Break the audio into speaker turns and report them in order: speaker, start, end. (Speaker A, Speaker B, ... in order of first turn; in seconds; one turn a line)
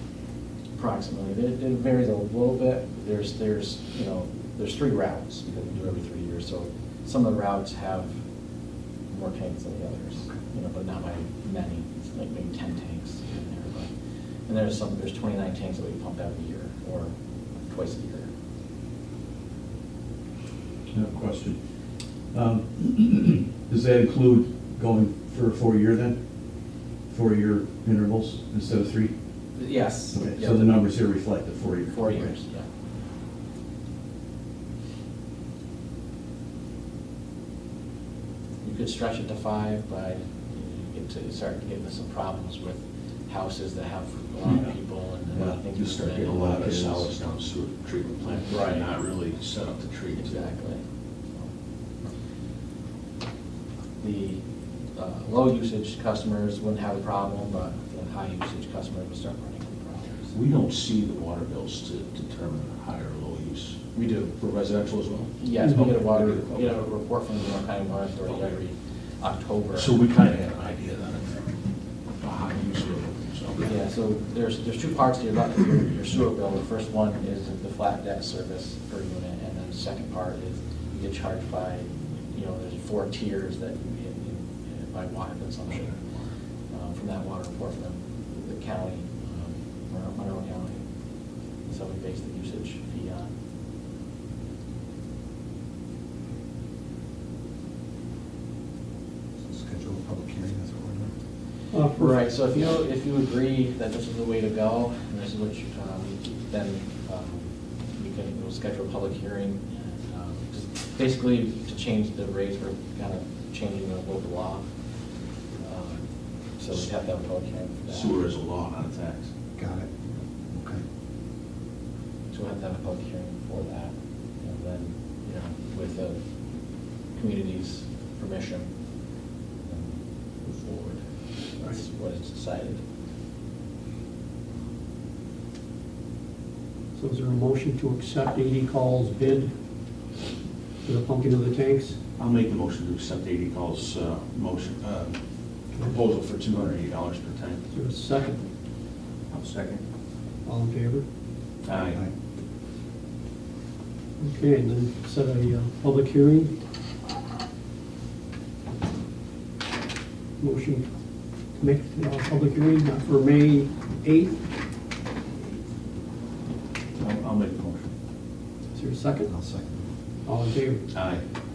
Speaker A: 0.8-8.2
Speaker A: 9.1-13.9
Speaker A: 14.5-18.3
Speaker B: 20.9-21.6
Speaker B: 22.3-26.1
Speaker B: 27.1-29.1
Speaker A: 29.5-30.8
Speaker C: 30.2-30.5
Speaker B: 30.3-32.3
Speaker A: 31.9-32.7
Speaker A: 38.6-47.1
Speaker C: 45.3-50.5
Speaker A: 48.3-48.9
Speaker A: 50.2-50.8
Speaker A: 54.0-54.4
Speaker A: 54.9-60.3
Speaker C: 60.3-63.8
Speaker A: 63.9-64.3
Speaker C: 64.4-66.7
Speaker A: 65.4-69.9
Speaker D: 65.6-65.9
Speaker C: 68.2-68.6
Speaker C: 69.7-71.4
Speaker C: 72.2-73.7
Speaker A: 73.6-86.0
Speaker C: 85.7-86.0
Speaker A: 86.7-90.8
Speaker A: 91.6-93.3
Speaker E: 99.4-101.1
Speaker D: 101.7-102.2
Speaker A: 101.9-114.7
Speaker A: 115.6-116.0
Speaker A: 116.6-118.2
Speaker C: 117.9-119.3
Speaker E: 119.5-119.9
Speaker E: 120.5-120.8
Speaker A: 122.3-126.2
Speaker A: 127.1-128.7
Speaker A: 129.6-132.8
Speaker D: 136.9-139.5
Speaker D: 140.8-142.0
Speaker C: 142.2-145.2
Speaker C: 145.7-147.6
Speaker D: 147.7-148.4
Speaker C: 149.3-149.8
Speaker D: 150.4-151.0
Speaker C: 151.6-152.0
Speaker E: 151.8-152.1
Speaker D: 154.2-156.5
Speaker D: 160.4-160.9
Speaker D: 161.6-164.4
Speaker C: 167.0-167.9
Speaker D: 168.7-169.3
Speaker E: 169.2-169.8
Speaker D: 170.2-170.9
Speaker C: 170.9-171.2